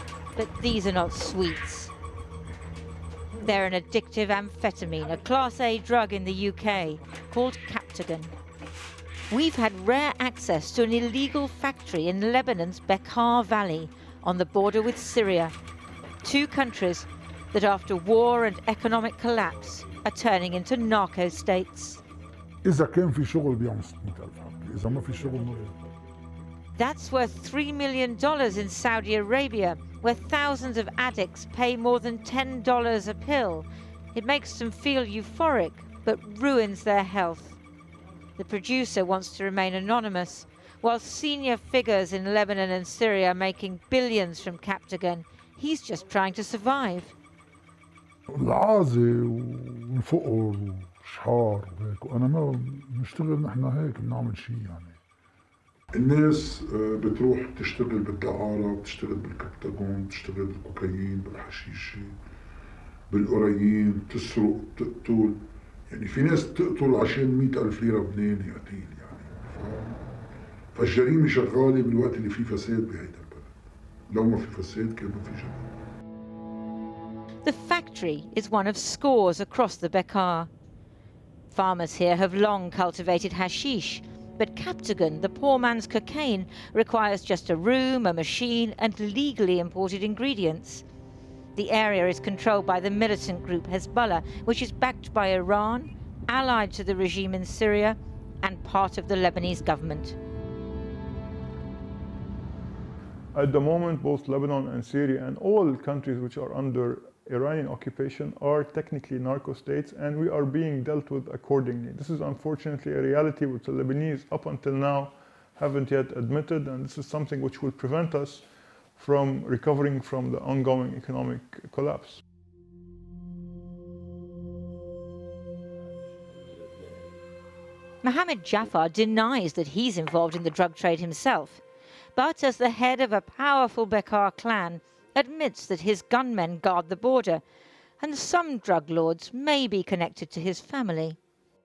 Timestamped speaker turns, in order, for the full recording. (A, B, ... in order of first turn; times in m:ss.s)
0:00.4-0:01.9 A
0:03.4-0:08.3 A
0:09.3-0:15.6 A
0:16.2-0:22.0 A
0:22.6-0:25.8 B
0:26.8-0:37.6 A
0:38.4-0:47.2 A
0:48.3-0:55.0 B
0:55.9-1:02.2 B
1:03.1-1:10.0 B
1:10.7-1:13.5 B
1:14.1-1:15.7 B
1:17.4-1:20.5 A
1:21.5-1:30.8 A
1:31.6-1:40.2 A
1:43.3-1:58.5 C
1:59.0-2:02.2 C
2:08.0-2:11.6 A
2:12.2-2:17.4 A
2:18.0-2:21.2 A